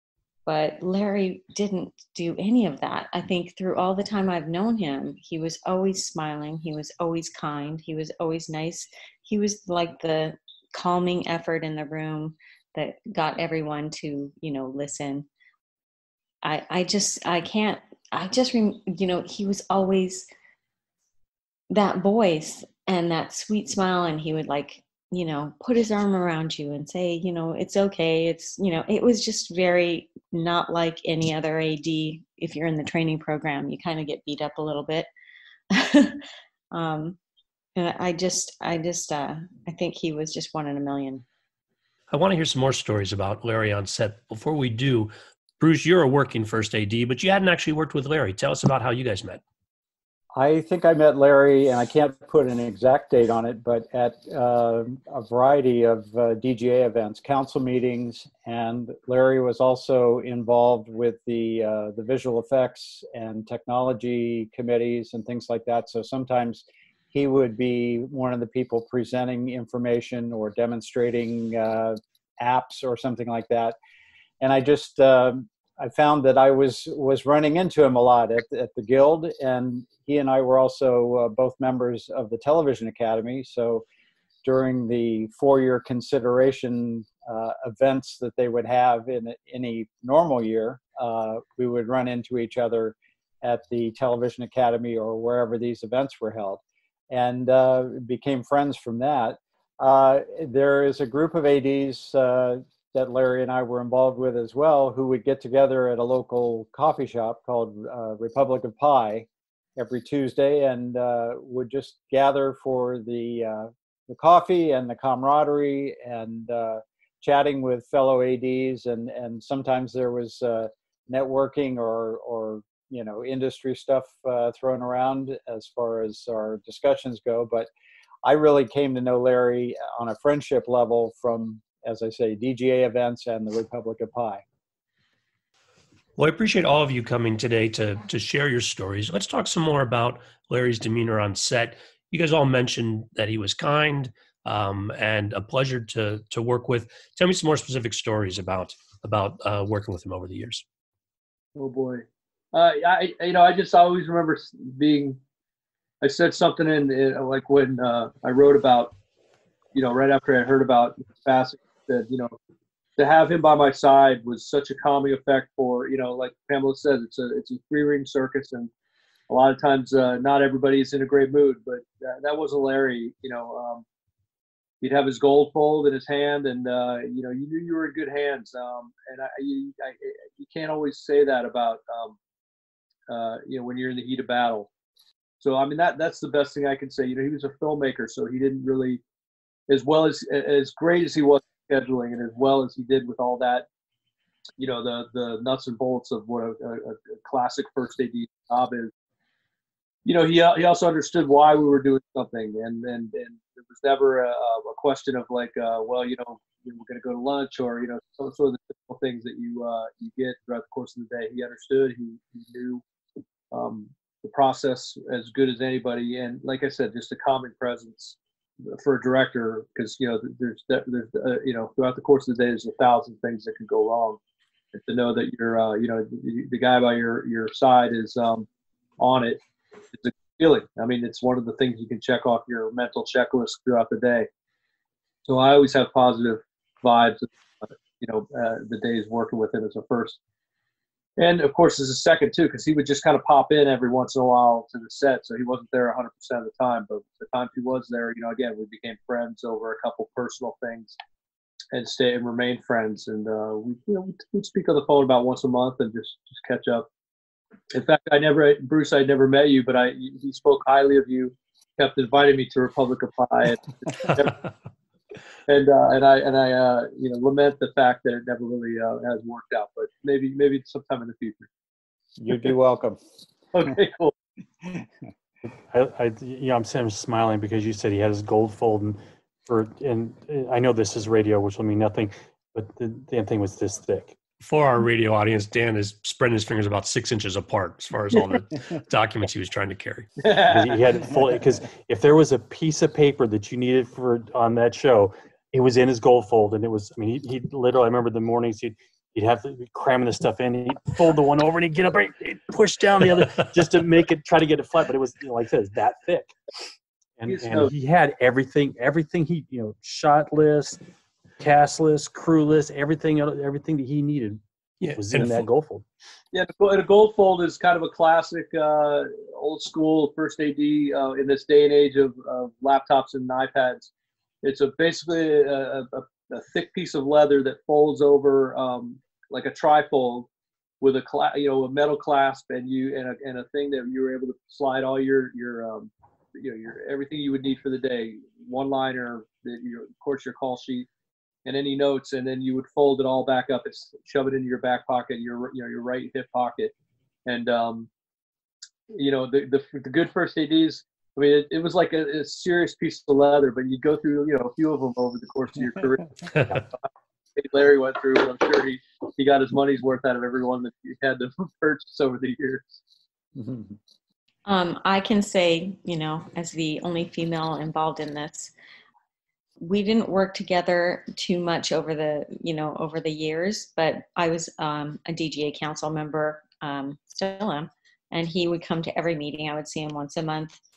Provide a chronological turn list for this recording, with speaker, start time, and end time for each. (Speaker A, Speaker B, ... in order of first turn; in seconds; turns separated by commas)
Speaker A: 0.5-15.3, Speaker A: 16.4-20.3, Speaker A: 21.7-35.1, Speaker A: 35.7-36.2, Speaker A: 36.7-37.2, Speaker A: 37.8-41.2, Speaker B: 42.1-49.4, Speaker C: 50.3-73.8, Speaker C: 74.4-83.8, Speaker C: 84.4-127.7, Speaker C: 128.2-134.4, Speaker B: 136.2-150.6, Speaker D: 151.5-155.2, Speaker D: 156.0-158.9, Speaker D: 159.7-162.3, Speaker D: 163.0-168.7, Speaker D: 169.3-173.8, Speaker D: 174.8-182.2, Speaker D: 183.1-184.7, Speaker D: 185.4-189.0, Speaker D: 189.7-193.7, Speaker D: 194.6-198.9, Speaker D: 200.0-212.8, Speaker D: 213.5-224.2, Speaker D: 224.7-228.5, Speaker D: 229.0-229.4, Speaker D: 229.9-234.3, Speaker D: 235.2-240.2, Speaker D: 241.2-251.0, Speaker D: 251.7-256.9, Speaker D: 257.7-264.4, Speaker D: 265.5-271.5, Speaker C: 272.2-273.0, Speaker D: 273.5-274.1, Speaker E: 275.7-284.2, Speaker B: 284.4-290.1, Speaker D: 290.2-290.9, Speaker E: 290.4-306.3, Speaker E: 307.2-310.8, Speaker D: 307.3-307.7, Speaker E: 311.4-315.8, Speaker B: 314.8-315.4, Speaker D: 316.3-323.9, Speaker D: 324.4-330.3, Speaker D: 330.8-340.9, Speaker D: 341.4-346.7, Speaker D: 347.2-347.9, Speaker D: 348.9-356.7, Speaker D: 357.4-362.8, Speaker C: 363.4-363.8, Speaker A: 364.4-368.5, Speaker A: 369.6-380.6